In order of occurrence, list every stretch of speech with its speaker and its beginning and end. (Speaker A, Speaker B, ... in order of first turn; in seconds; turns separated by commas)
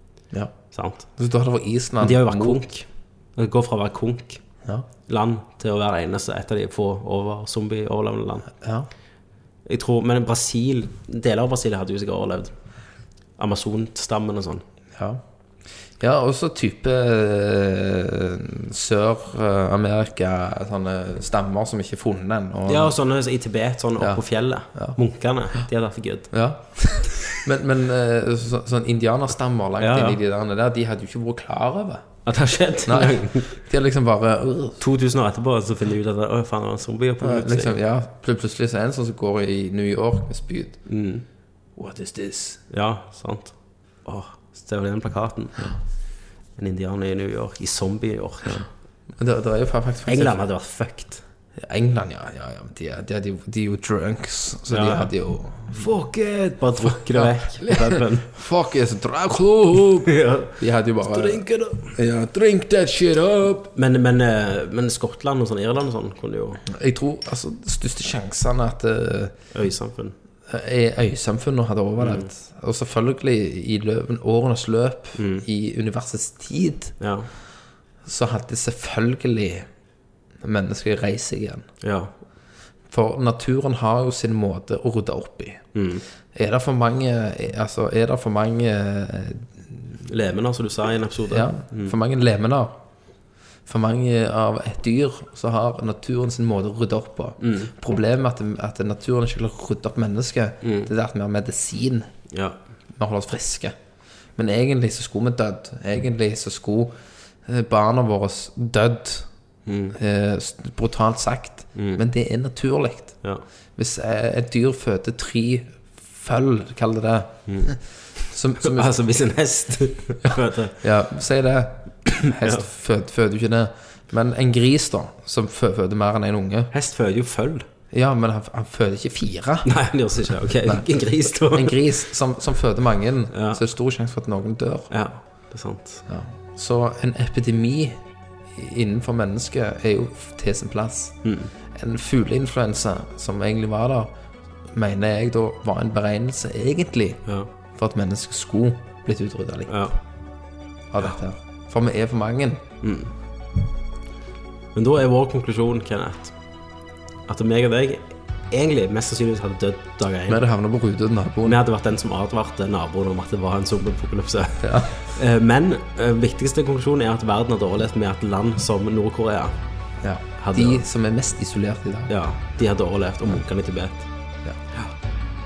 Speaker A: 0.7-1.1, Speaker B: 1.1-2.6, Speaker A: 2.0-4.4, Speaker A: 5.1-8.5, Speaker B: 8.6-8.9, Speaker A: 9.7-12.5, Speaker A: 13.4-14.6, Speaker B: 14.9-15.2, Speaker B: 16.0-22.9, Speaker A: 22.7-26.3, Speaker B: 24.0-24.2, Speaker B: 26.3-32.1, Speaker A: 29.8-30.2, Speaker A: 32.2-33.5, Speaker B: 32.8-34.8, Speaker A: 34.8-37.8, Speaker B: 37.2-40.8, Speaker A: 40.9-41.2, Speaker B: 41.8-42.6, Speaker A: 42.7-45.7, Speaker A: 46.6-48.7, Speaker B: 49.1-50.4, Speaker A: 50.0-51.2, Speaker B: 51.6-55.9, Speaker A: 54.7-55.1, Speaker A: 55.7-58.3, Speaker B: 56.9-63.7, Speaker A: 60.0-61.9, Speaker A: 63.7-66.6, Speaker B: 66.7-69.3, Speaker A: 69.5-70.2, Speaker B: 70.5-77.0, Speaker A: 72.0-72.3, Speaker A: 75.2-75.4, Speaker A: 77.0-77.3, Speaker B: 78.0-79.7, Speaker B: 80.4-81.7, Speaker A: 81.8-82.1, Speaker B: 82.9-85.7, Speaker A: 85.7-86.0, Speaker B: 86.3-89.9, Speaker A: 90.0-91.9, Speaker B: 91.3-92.8, Speaker B: 93.7-102.1, Speaker A: 97.4-97.7, Speaker A: 100.6-100.9, Speaker A: 102.3-102.6, Speaker B: 103.0-103.7, Speaker B: 104.3-109.3, Speaker A: 109.7-110.0, Speaker B: 109.9-113.2, Speaker A: 111.7-112.0, Speaker B: 113.8-119.0, Speaker A: 117.5-117.7, Speaker A: 118.6-120.8, Speaker B: 120.8-126.7, Speaker A: 122.1-122.6, Speaker A: 126.7-127.7, Speaker B: 127.9-129.7, Speaker A: 129.6-131.9, Speaker B: 130.4-130.8, Speaker B: 131.4-134.9, Speaker A: 133.3-133.6, Speaker A: 134.9-136.0, Speaker B: 136.1-138.0, Speaker B: 138.5-141.2, Speaker A: 141.2-141.5, Speaker B: 141.7-144.1, Speaker B: 144.7-149.9, Speaker A: 149.7-149.9, Speaker B: 150.9-152.6, Speaker A: 152.8-153.1, Speaker A: 154.7-156.3, Speaker A: 157.3-160.4, Speaker B: 160.3-161.6, Speaker A: 161.4-169.5, Speaker B: 164.6-164.9, Speaker B: 170.0-172.1, Speaker A: 170.4-170.8, Speaker A: 172.1-174.1